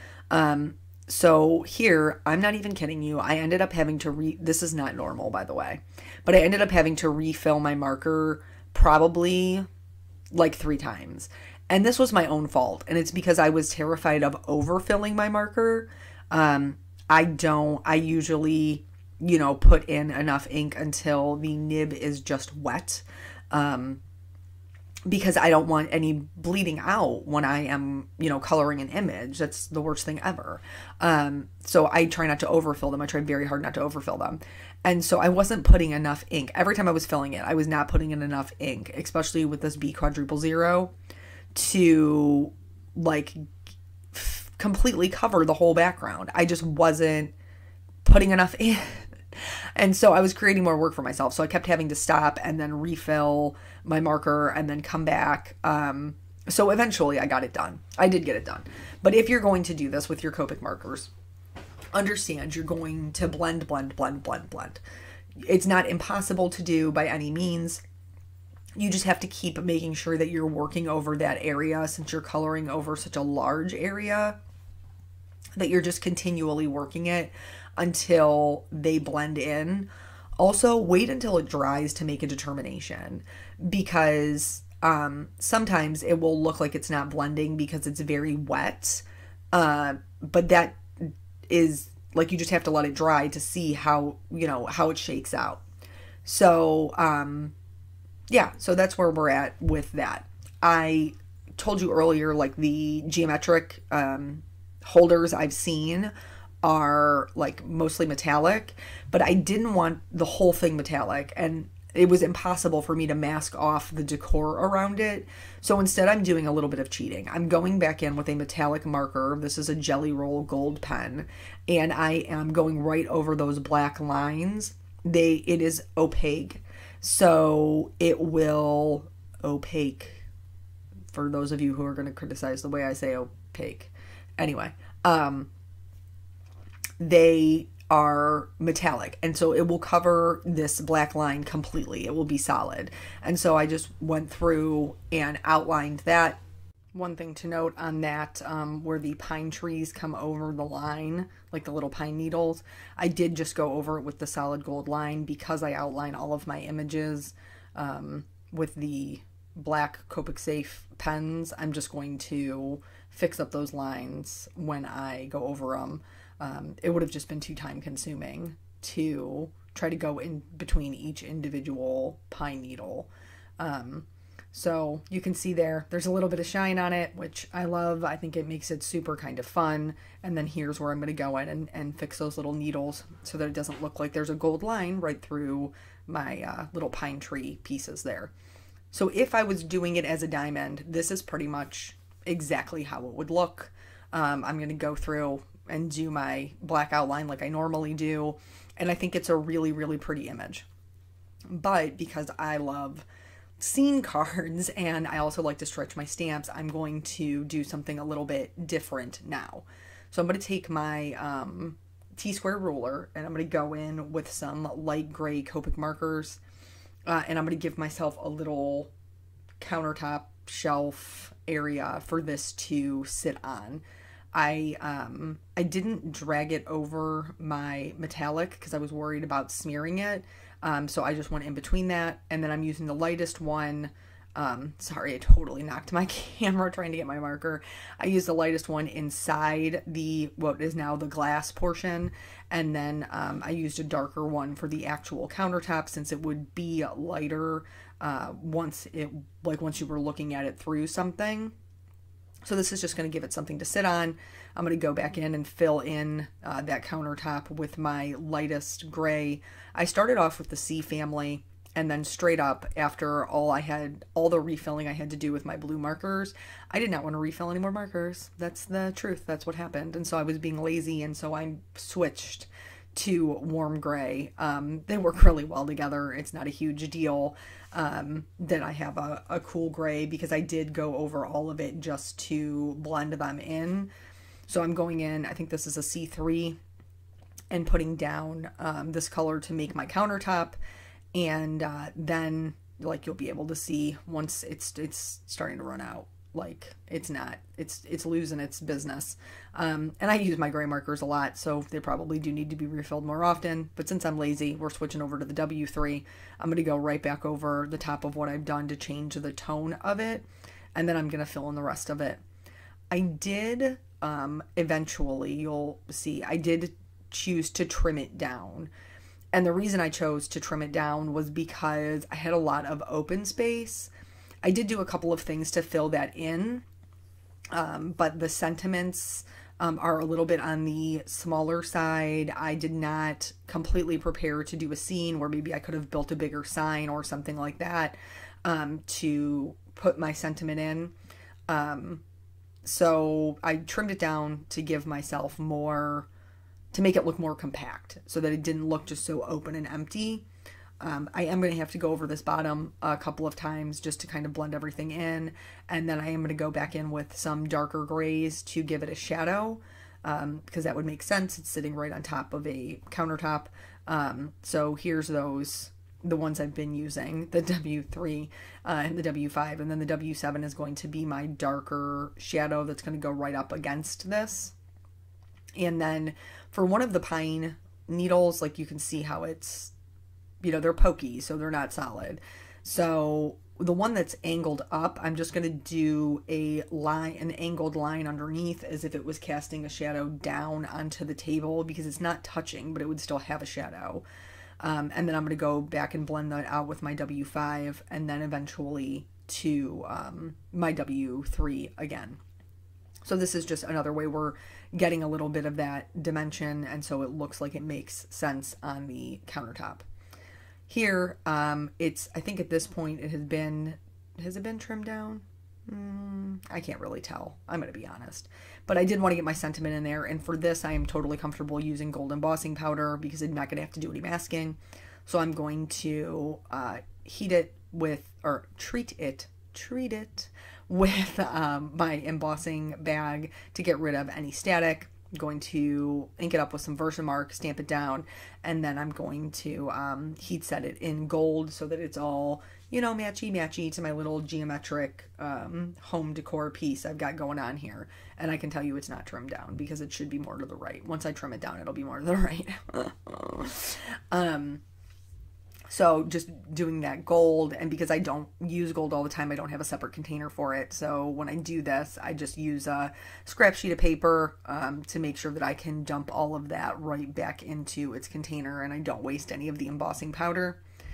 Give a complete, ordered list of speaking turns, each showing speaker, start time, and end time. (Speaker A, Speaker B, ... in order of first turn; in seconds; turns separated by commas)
Speaker A: 0.3-9.7, Speaker A: 10.3-24.0, Speaker A: 25.1-40.9, Speaker A: 41.5-43.5, Speaker A: 44.1-47.3, Speaker A: 48.0-61.1, Speaker A: 61.9-64.8, Speaker A: 65.4-67.8, Speaker A: 68.8-74.4, Speaker A: 75.6-79.9, Speaker A: 80.4-95.6, Speaker A: 96.2-97.5, Speaker A: 98.3-106.1, Speaker A: 106.6-130.2, Speaker A: 131.1-135.5, Speaker A: 137.0-146.4, Speaker A: 146.9-188.3, Speaker A: 188.9-200.7, Speaker A: 201.5-203.1, Speaker A: 203.6-216.4, Speaker A: 217.1-218.9, Speaker A: 219.6-251.5, Speaker A: 252.4-283.9, Speaker A: 284.5-286.6, Speaker A: 287.5-290.6, Speaker A: 291.1-312.2, Speaker A: 312.9-318.7, Speaker A: 319.3-323.9, Speaker A: 324.4-326.6, Speaker A: 327.5-340.9, Speaker A: 341.5-342.0, Speaker A: 342.6-346.1, Speaker A: 346.7-350.2, Speaker A: 350.8-374.5, Speaker A: 375.6-379.7, Speaker A: 380.4-394.0, Speaker A: 394.6-402.2, Speaker A: 403.0-409.9, Speaker A: 410.7-454.6, Speaker A: 455.7-470.6